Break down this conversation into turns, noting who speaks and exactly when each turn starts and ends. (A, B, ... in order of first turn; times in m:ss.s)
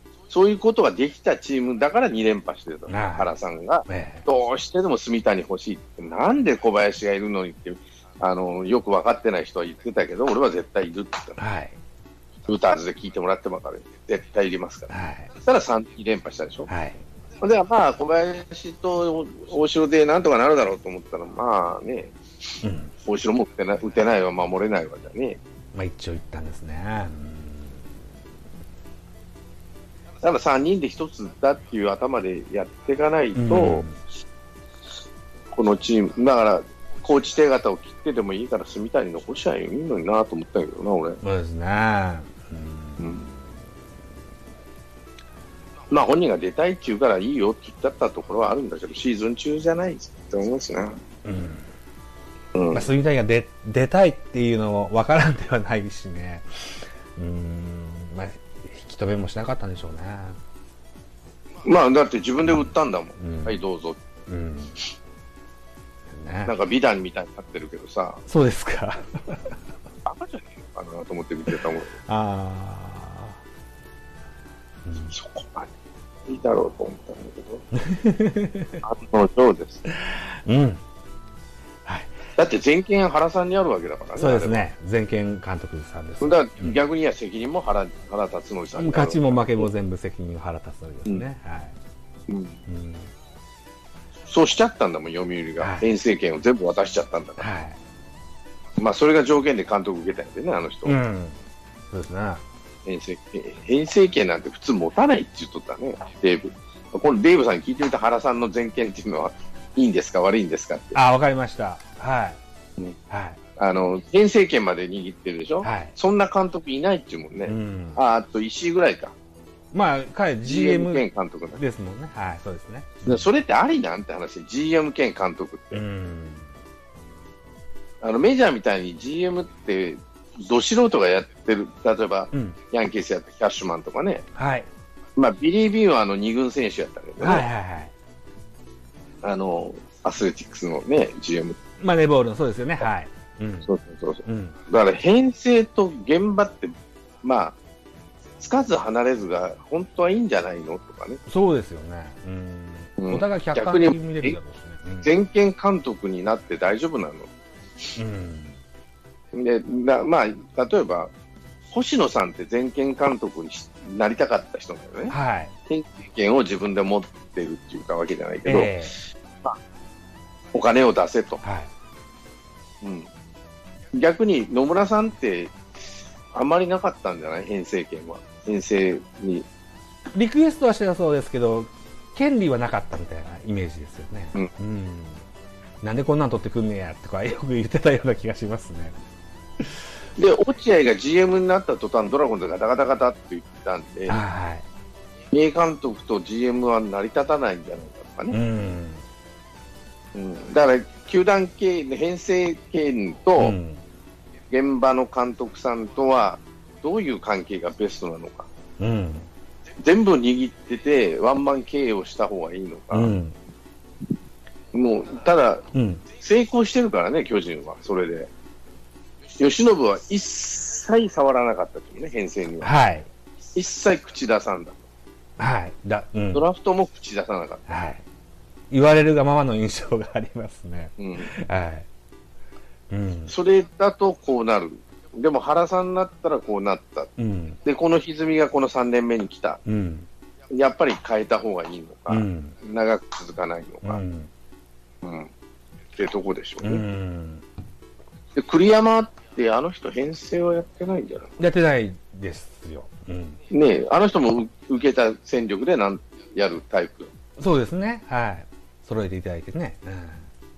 0:00.3-0:11.4 A
0:02.9-0:03.3 B
0:03.9-0:04.3 B
0:11.4-0:11.8 B
0:12.5-0:14.9 A
0:14.9-0:15.3 B
0:15.4-0:16.7 A
0:16.7-0:17.0 B
0:17.4-0:22.1 A
0:22.6-0:22.9 B
0:23.0-0:25.4 A
0:25.7-0:27.9 B
0:30.2-0:33.9 A
0:33.3-0:34.0 B
0:35.5-0:41.2 A
0:41.2-0:43.1 B
0:43.0-0:43.3 A
0:45.9-0:51.0 A
0:51.2-0:51.6 B
0:52.5-0:52.8 A
0:52.7-1:00.4 B
1:01.6-1:04.0 A
1:02.4-1:03.6 B
1:04.3-1:04.8 B
1:06.1-1:06.5 B
1:06.4-1:08.2 A
1:08.3-1:09.6 B
1:10.0-1:11.9 A
1:12.1-1:13.4 B
1:14.8-1:15.1 B
1:15.1-1:15.7 A
1:16.3-1:17.6 A
1:17.7-1:18.8 B
1:18.8-1:19.8 A
1:19.9-1:20.8 B
1:21.8-1:22.1 B
1:22.4-1:24.6 A
1:24.2-1:26.8 B
1:26.2-1:29.7 A
1:28.7-1:31.7 B
1:32.3-1:32.6 A
1:32.7-1:33.1 B
1:34.3-1:37.5 A
1:35.6-1:35.8 B
1:37.4-1:37.8 B
1:38.8-1:41.0 A
1:40.8-1:41.4 B
1:41.9-1:42.4 B
1:42.8-1:51.0 A
1:50.9-1:52.4 B
1:53.1-1:53.4 B
1:53.6-1:59.1 A
1:55.6-1:55.9 B
1:57.5-1:58.0 B
1:59.7-2:03.3 B
2:00.4-2:01.6 A
2:03.0-2:05.8 A
2:05.7-2:06.5 B
2:08.0-2:14.2 A
2:12.3-2:12.6 B
2:14.4-2:14.6 B
2:15.2-2:17.5 A
2:17.2-2:17.9 B
2:19.2-2:21.6 A
2:21.8-2:23.7 B
2:23.6-2:27.6 A
2:24.2-2:24.6 B
2:28.4-2:31.2 A
2:31.3-2:35.1 B
2:33.0-2:34.4 A
2:35.0-2:37.3 A
2:38.0-2:38.6 B
2:39.3-2:41.1 A
2:41.7-2:45.1 A
2:45.1-2:45.5 B
2:45.7-2:49.6 A
2:48.4-2:49.0 B
2:50.5-2:51.4 A
2:51.4-2:51.7 B
2:52.8-2:53.1 A
2:53.9-2:55.6 A
2:56.3-2:59.4 A
3:00.1-3:05.2 B
3:05.8-3:08.9 B
3:10.2-3:14.2 A
3:14.1-3:14.6 B
3:15.3-3:18.4 A
3:18.3-3:19.0 B
3:20.1-3:23.6 A
3:23.4-3:23.8 B
3:24.5-3:28.5 A
3:28.8-3:29.3 B
3:29.8-3:33.1 A
3:32.9-3:33.3 B
3:34.7-3:35.6 A
3:35.7-3:36.0 B
3:36.2-3:38.3 A
3:39.4-3:42.7 A
3:42.6-3:43.1 B
3:43.5-3:44.8 A
3:45.4-3:46.4 B
3:46.3-3:47.7 A
3:47.7-3:48.0 B
3:48.7-3:51.9 B
3:51.0-3:51.3 A
3:52.9-3:53.3 B
3:53.3-3:57.1 A
3:57.2-3:57.6 B
3:57.6-3:59.6 A
3:59.6-4:00.1 B
4:00.5-4:04.0 A
4:02.1-4:02.6 B
4:03.8-4:04.3 B
4:05.0-4:05.3 A
4:06.0-4:06.8 A
4:06.6-4:07.4 B
4:08.3-4:11.4 A
4:11.4-4:13.4 B
4:13.5-4:17.1 A
4:17.4-4:20.3 B